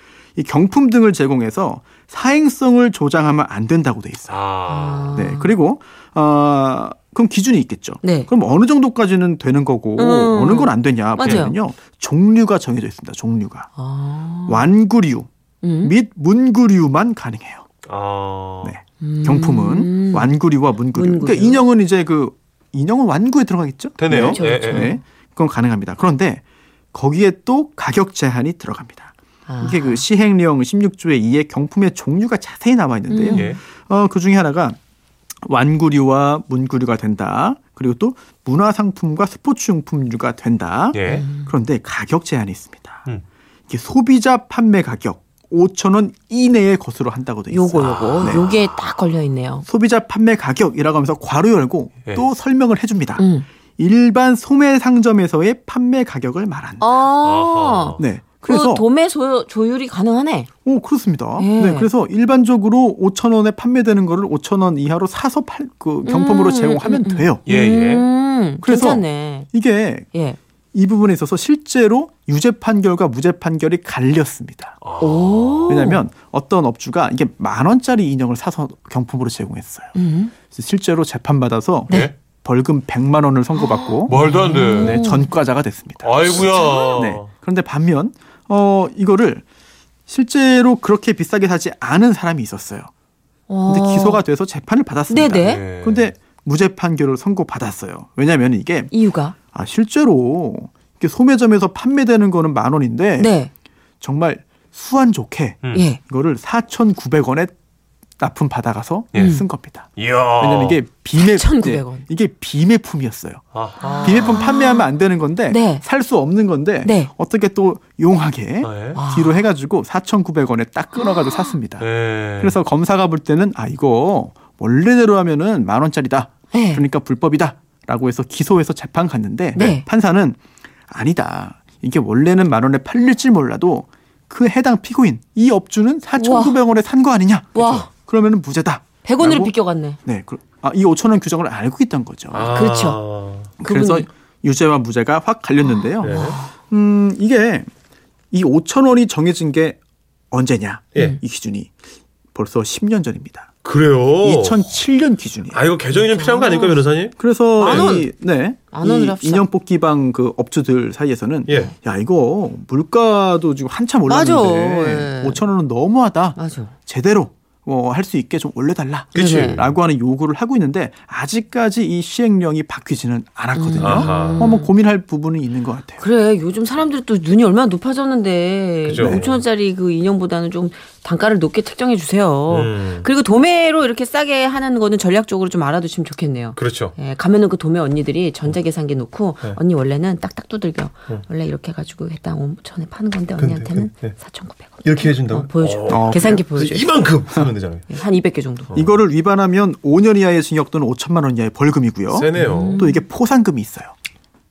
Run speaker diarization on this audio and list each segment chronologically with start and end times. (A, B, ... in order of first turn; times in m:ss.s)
0:00.4-0:04.4 A
0:04.3-0:05.1 B
0:04.7-0:05.5 C
0:05.1-0:13.7 A
0:08.0-0:08.3 C
0:10.0-0:11.5 C
0:13.8-0:14.7 C
0:14.5-0:15.3 A
0:15.6-0:15.9 C
0:15.8-0:17.6 A
0:17.9-0:18.8 B
0:18.6-0:34.8 A
0:19.0-0:20.3 C
0:20.9-0:21.6 C
0:24.0-0:24.9 B
0:24.1-0:25.0 C
0:29.5-0:30.0 C
0:33.1-0:33.5 C
0:33.3-0:33.6 B
0:35.4-0:43.0 A
0:40.9-0:41.2 B
0:41.0-0:41.5 C
0:43.7-0:48.5 A
0:47.5-0:49.6 C
0:47.8-0:48.9 B
0:49.7-0:53.2 A
0:53.2-0:53.5 C
0:53.8-0:56.9 A
0:56.8-1:00.5 C
0:57.2-0:58.0 B
0:58.0-0:58.8 A
1:00.6-1:07.4 A
1:01.4-1:01.9 C
1:06.0-1:09.5 C
1:07.5-1:08.0 B
1:08.6-1:10.1 A
1:10.1-1:10.4 C
1:10.7-1:14.8 A
1:14.8-1:15.8 B
1:15.0-1:16.0 C
1:15.7-1:20.0 A
1:20.0-1:20.3 C
1:20.5-1:29.4 A
1:23.5-1:25.3 C
1:24.0-1:25.1 B
1:26.0-1:27.3 B
1:26.5-1:27.0 C
1:30.1-1:32.9 A
1:33.5-1:34.2 C
1:33.6-1:38.9 A
1:35.1-1:35.6 C
1:35.4-1:36.1 B
1:38.9-1:39.4 C
1:39.5-1:43.3 A
1:43.2-1:43.5 C
1:44.0-1:47.5 A
1:45.7-1:46.0 C
1:48.2-1:53.4 A
1:49.1-1:49.4 B
1:49.2-1:49.4 C
1:50.0-1:50.8 B
1:51.1-1:52.0 C
1:53.5-1:54.5 B
1:53.8-1:54.8 C
1:54.0-2:01.9 A
1:55.5-1:55.8 C
1:56.8-1:57.1 C
1:58.6-1:59.0 B
1:59.0-1:59.5 C
2:01.8-2:02.6 B
2:02.4-2:19.5 A
2:06.5-2:06.8 C
2:09.5-2:09.8 C
2:16.2-2:16.6 C
2:17.5-2:17.9 C
2:19.0-2:20.0 C
2:20.0-2:22.5 A
2:22.3-2:23.5 B
2:22.5-2:23.0 C
2:23.6-2:27.7 A
2:23.6-2:24.1 C
2:25.8-2:26.5 C
2:26.0-2:26.4 B
2:28.3-2:29.8 A
2:30.3-2:31.7 A
2:32.3-2:33.5 A
2:33.6-2:34.7 B
2:34.2-2:35.6 A
2:35.5-2:38.0 B
2:36.0-2:36.8 C
2:37.2-2:56.0 A
2:37.6-2:38.1 C
2:38.7-2:39.4 C
2:41.5-2:41.7 B
2:41.5-2:41.7 C
2:44.1-2:45.4 C
2:46.4-2:46.7 C
2:49.1-2:49.8 B
2:49.2-2:49.6 C
2:53.5-2:54.7 C
2:53.8-2:54.5 B
2:56.0-3:16.9 C
2:58.9-2:59.4 B
2:58.9-2:59.2 A
3:02.5-3:03.1 B
3:06.6-3:07.0 B
3:13.4-3:14.2 B
3:14.8-3:17.9 B
3:15.9-3:16.5 A
3:17.9-3:18.7 C
3:18.7-3:19.0 B
3:18.7-3:23.9 A
3:22.1-3:22.8 B
3:22.4-3:23.0 C